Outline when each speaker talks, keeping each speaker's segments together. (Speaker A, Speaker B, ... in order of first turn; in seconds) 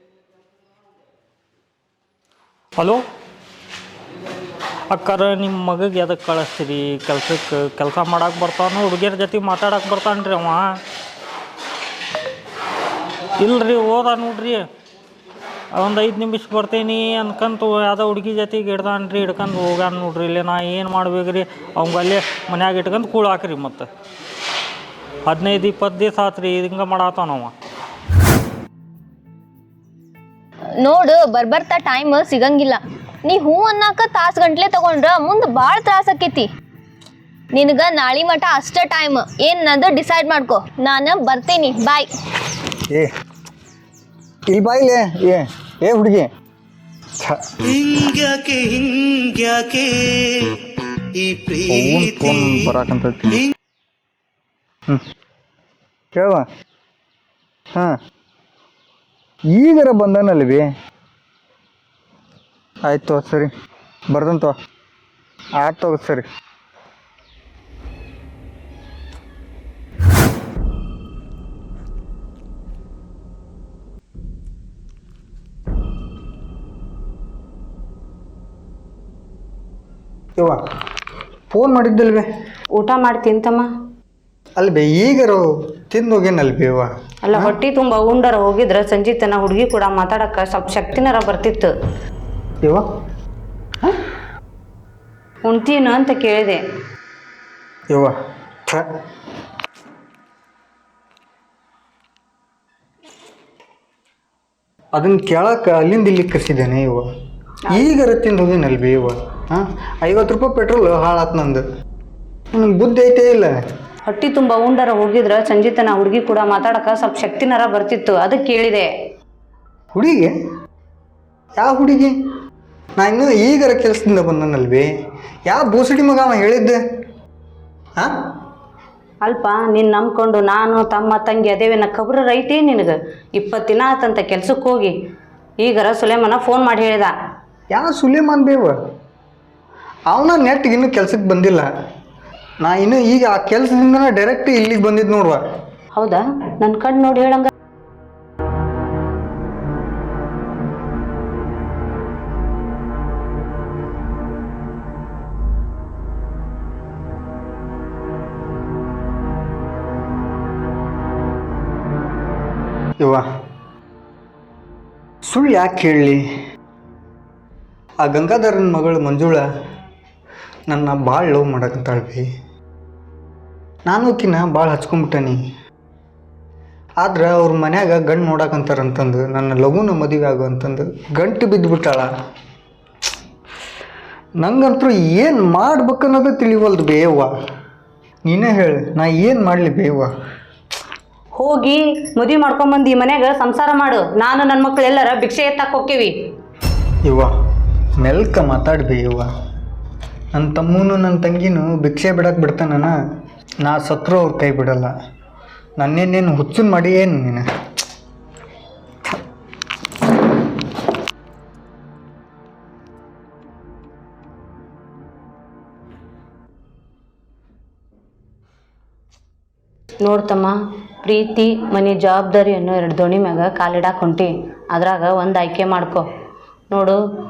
Speaker A: 2.8-3.0, 4.9-10.7, 13.4-14.6, 15.7-23.9, 25.2-27.5
Speaker B: 30.8-36.5, 37.5-42.1
Speaker C: 44.5-46.3, 47.2-47.6, 51.7-53.4, 56.1-56.5, 59.5-60.7, 62.8-63.5, 64.1-64.5, 65.5-66.2, 81.5-82.3, 84.6-87.5, 104.9-107.1, 107.7-111.6, 112.5-113.5, 119.9-120.3, 121.6-122.1, 123.0-124.9, 125.5-126.8, 137.7-138.8, 140.1-141.7, 142.6-145.4, 163.0-163.2, 165.2-166.2, 168.0-169.4, 170.7-172.3, 173.9-175.4, 177.0-182.1, 184.4-187.3, 188.2-190.1, 197.0-197.3, 198.0-199.3, 200.3-202.9, 203.6-204.9, 205.8-207.4
Speaker D: 47.6-52.7
Speaker E: 82.8-83.7, 87.2-91.7, 95.4-96.6, 114.1-118.9, 129.2-134.9, 135.6-137.1, 145.9-147.5, 191.3-196.1, 220.0-226.0, 226.7-227.0